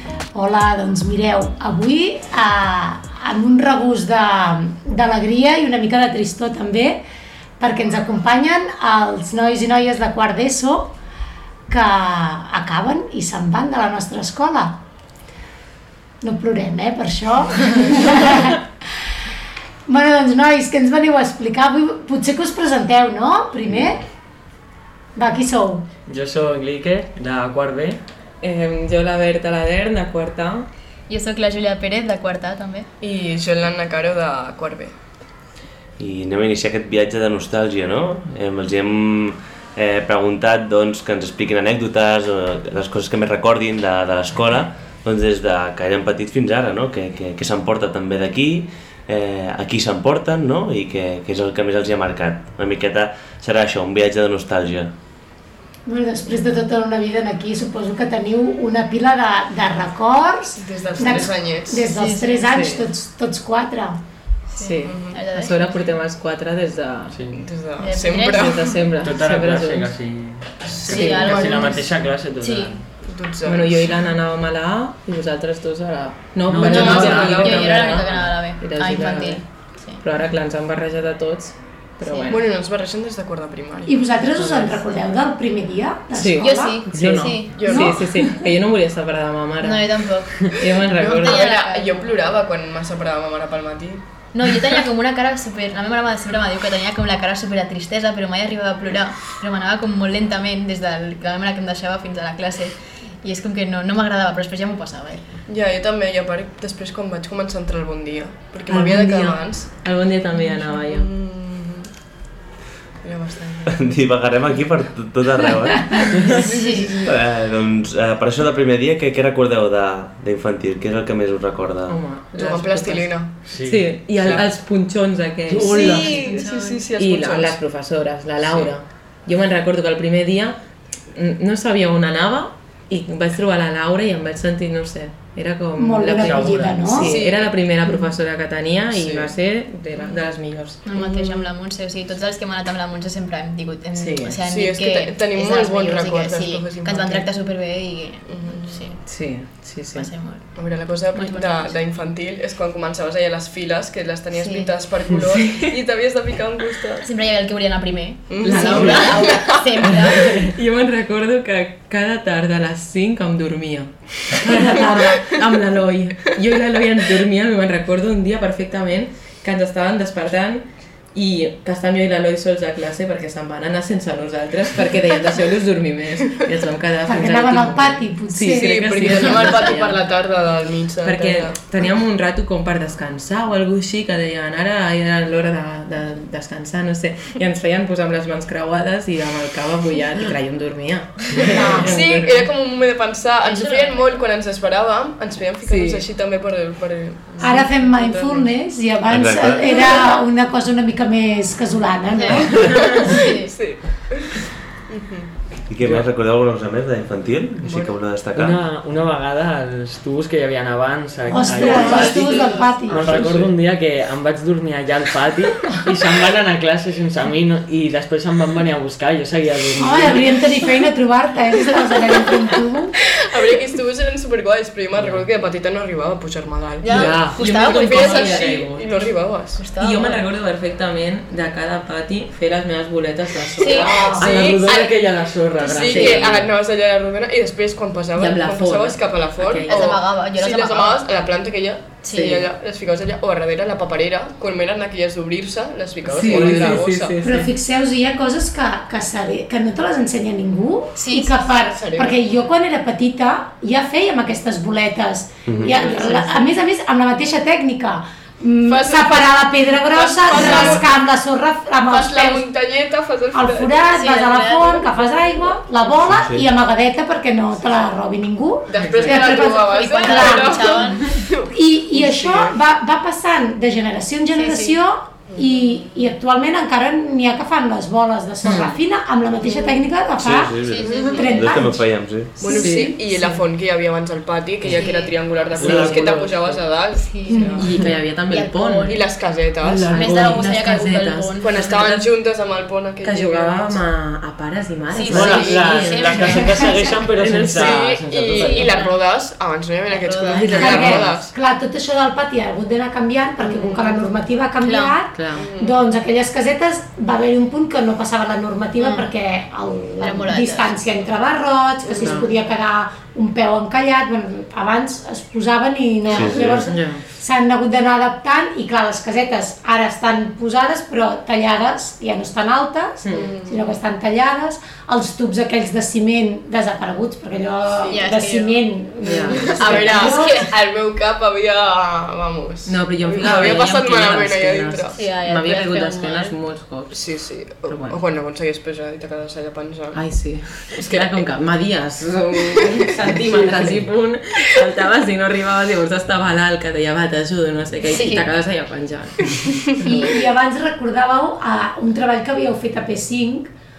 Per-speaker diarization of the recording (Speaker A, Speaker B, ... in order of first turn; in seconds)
Speaker A: 0.3-7.0, 7.6-10.9, 11.7-14.8, 16.2-18.6, 19.9-24.0, 25.1-25.9, 55.9-64.0, 83.9-86.8, 87.7-88.0, 135.8-137.1, 177.1-179.3, 191.5-192.0, 197.4-203.2, 211.3-213.2, 219.8-223.0, 233.7-234.3, 247.2-262.5, 263.3-270.8, 271.5-281.9, 282.4-282.9, 287.3-287.6, 300.6-330.5, 349.8-353.5
Speaker B: 26.1-28.0, 67.1-67.4, 69.0-72.8, 76.5-78.3, 84.4-84.7, 86.9-87.3, 123.5-124.5, 136.2-136.9, 158.6-159.1, 160.1-160.5, 205.8-206.1, 208.3-220.4, 224.9-225.3, 234.1-236.5, 246.3-246.8, 285.6-286.6, 289.6-290.4, 295.1-298.8, 343.0-343.9
Speaker C: 28.4-30.7, 62.5-62.9, 64.6-67.2, 68.3-69.9, 70.9-71.4, 73.5-79.5, 80.0-82.4, 86.1-91.4, 108.7-111.1, 121.9-126.2, 127.0-130.6, 131.1-140.8, 143.9-144.4, 149.1-150.1, 155.3-155.8, 158.4-159.1, 160.5-180.1, 181.0-192.5, 195.6-196.1, 226.9-228.9, 229.8-234.5, 235.7-236.4, 238.2-240.0, 242.1-242.4, 246.1-247.5, 255.8-256.3, 268.8-269.2, 278.4-278.8, 282.5-283.4, 285.6-286.3, 287.6-289.0, 289.8-292.2, 293.0-297.9, 300.3-301.2, 305.1-305.5, 312.0-312.3, 316.4-317.0, 323.0-323.3, 329.1-329.7, 332.7-338.0, 339.9-349.6
Speaker D: 31.1-32.9, 61.9-62.5, 64.5-65.8, 67.8-68.8, 70.9-72.8, 76.6-80.0, 82.0-82.4, 86.4-87.5, 89.6-90.6, 91.2-92.2, 94.3-105.2, 116.3-117.0, 125.7-126.9, 140.8-149.0, 149.9-151.8, 154.3-154.7, 157.1-160.4, 179.3-179.7, 193.4-194.0, 202.1-203.5, 211.5-213.1, 226.8-228.4, 229.6-230.2, 233.6-234.1, 235.9-236.3, 239.7-241.1, 242.0-242.4, 251.0-251.5, 263.9-264.9, 269.4-271.3, 274.3-274.8, 280.6-281.5, 284.7-285.2, 286.9-287.6, 288.3-289.2, 289.9-291.6, 294.9-296.9, 298.4-299.0, 299.9-301.0, 303.4-304.0, 304.6-305.0, 308.8-309.1, 310.0-310.8, 327.9-328.7, 329.4-330.5, 335.0-336.4, 347.9-348.3
Speaker E: 33.0-34.9, 60.6-61.9, 64.8-65.2, 67.3-68.8, 70.7-71.9, 73.0-74.0, 76.6-78.0, 82.3-84.0, 87.5-88.0, 90.9-94.0, 105.5-109.7, 110.7-111.9, 113.0-113.8, 116.4-117.1, 122.3-123.4, 125.6-127.6, 137.0-137.5, 138.9-139.3, 141.0-141.5, 144.5-147.3, 148.3-148.9, 150.6-157.1, 158.3-160.3, 178.5-181.6, 191.8-198.5, 202.6-205.3, 207.6-208.0, 223.3-229.6, 233.7-235.1, 235.6-247.2, 251.6-252.2, 258.7-260.9, 261.9-263.9, 268.7-272.6, 275.3-275.9, 280.9-281.4, 282.4-287.7, 288.9-289.9, 291.4-293.8, 295.1-295.9, 297.6-301.3, 305.4-305.8, 311.8-312.2, 316.1-316.6, 323.1-323.8, 329.6-335.0, 336.9-340.1, 340.7-341.3, 342.3-343.4
Speaker F: 36.0-54.9, 113.7-116.2, 117.0-122.0, 199.1-199.7, 205.7-208.6, 213.1-213.5, 255.5-255.8, 266.1-266.5, 280.2-282.4, 316.1-316.5